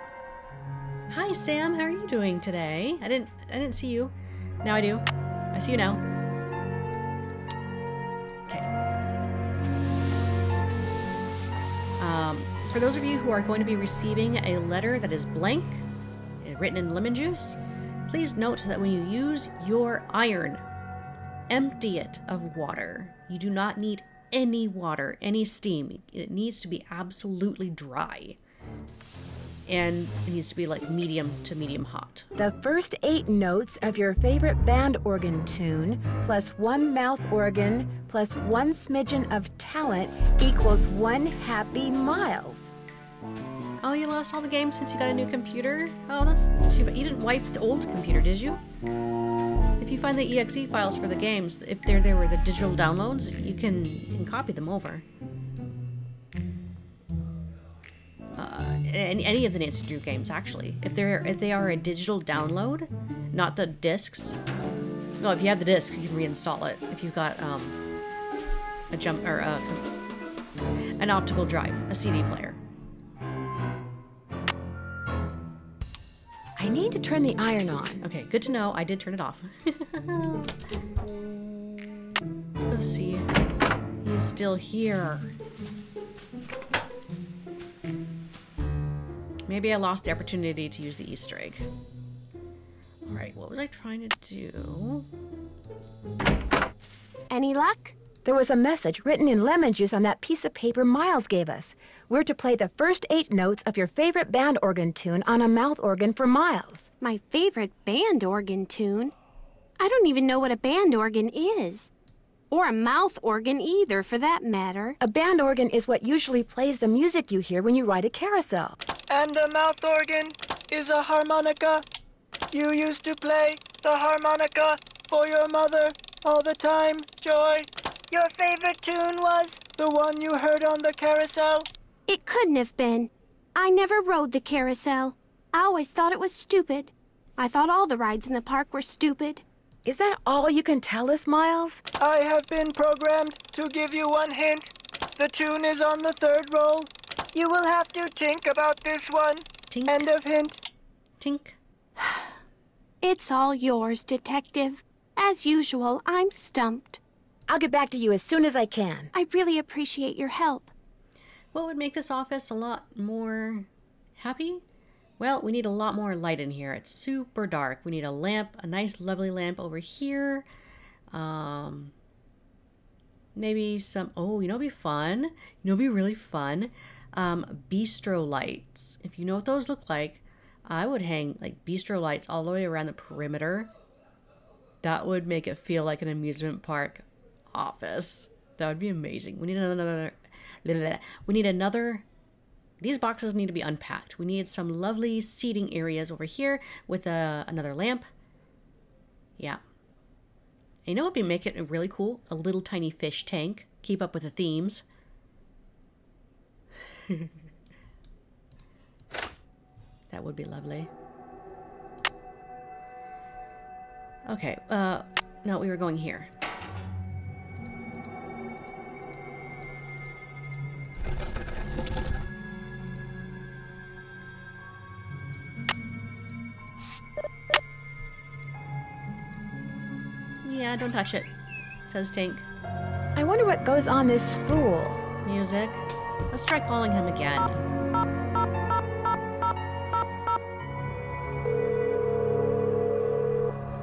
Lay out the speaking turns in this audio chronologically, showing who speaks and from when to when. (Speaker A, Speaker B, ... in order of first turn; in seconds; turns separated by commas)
Speaker A: 1.1-6.0, Speaker A: 12.0-15.8, Speaker A: 16.4-20.6, Speaker A: 21.5-28.4, Speaker A: 29.7-32.3, Speaker B: 32.4-42.7, Speaker A: 43.8-48.6, Speaker A: 49.8-55.0, Speaker A: 58.4-64.4, Speaker A: 65.2-67.8, Speaker A: 68.9-69.9, Speaker A: 71.0-72.6, Speaker B: 76.6-78.0, Speaker A: 78.0-80.5, Speaker A: 82.6-83.4, Speaker A: 84.0-85.3, Speaker A: 89.5-91.7, Speaker A: 93.1-95.1, Speaker C: 97.3-98.0, Speaker B: 98.2-106.9, Speaker C: 107.0-109.1, Speaker C: 109.8-111.9, Speaker C: 112.5-115.0, Speaker B: 115.0-118.8, Speaker D: 119.1-121.8, Speaker D: 122.5-131.7, Speaker C: 132.1-139.4, Speaker B: 139.9-141.8, Speaker D: 142.0-150.6, Speaker A: 149.7-150.1, Speaker A: 151.2-151.6, Speaker C: 153.0-157.0, Speaker B: 157.5-159.1, Speaker C: 159.1-160.7, Speaker A: 161.5-164.6, Speaker A: 165.2-170.5, Speaker A: 171.1-171.9, Speaker A: 173.3-183.7, Speaker A: 184.8-192.1, Speaker A: 192.8-198.1, Speaker A: 200.9-204.8, Speaker A: 210.1-210.9, Speaker A: 214.3-216.3, Speaker A: 230.4-231.3, Speaker A: 231.9-232.5, Speaker B: 233.2-235.1, Speaker A: 235.2-237.6